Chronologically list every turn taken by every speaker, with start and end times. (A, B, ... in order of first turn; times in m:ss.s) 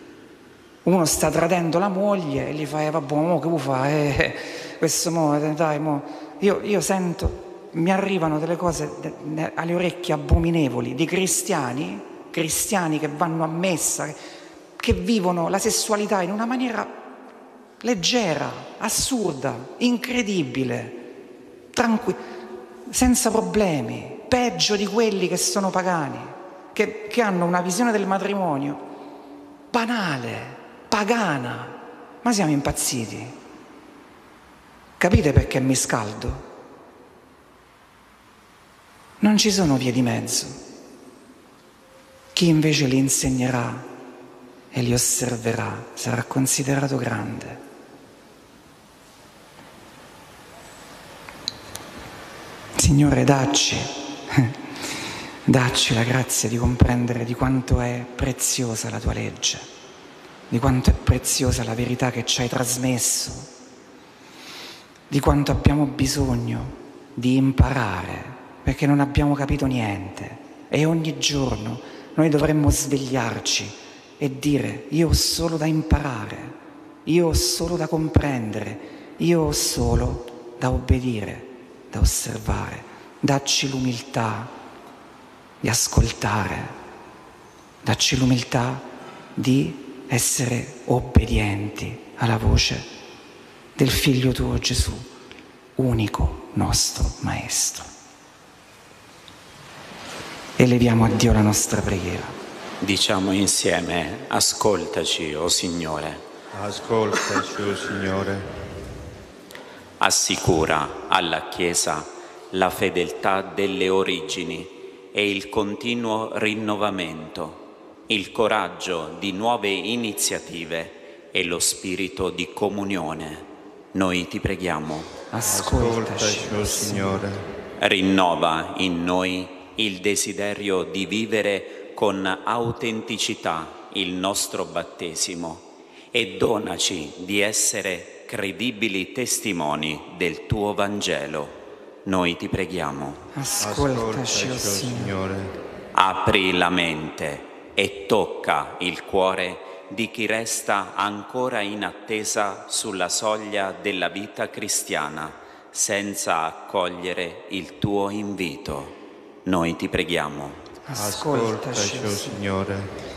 0:00.8-0:14.2 A
0:14.8-0:16.9 A
0:17.8-0:21.0 A
0:21.7-0:22.2 A
0:22.9-0:28.8 A
0:29.7-0:33.4 A
0:35.0-0:36.4 A
0:39.2-0:40.6 A
0:42.3-0:43.9 A
0:44.7-0:47.6 A
0:52.8-0:54.5 A
0:55.4-0:59.7 A
1:00.5-1:03.5 A
1:05.1-1:24.5 A
1:25.6-1:26.8 A
1:27.8-1:32.9 A
1:33.8-1:35.1 A
1:35.8-1:37.9 A
1:40.6-1:42.4 A
1:42.8-1:46.2 B
1:46.5-1:48.7 C
1:50.0-2:05.1 B
2:05.3-2:07.2 A
2:05.4-2:07.6 C
2:07.8-2:23.2 B
2:23.3-2:25.1 A
2:23.6-2:25.6 C
2:25.9-2:40.6 B
2:40.8-2:42.4 A
2:40.9-2:43.0 C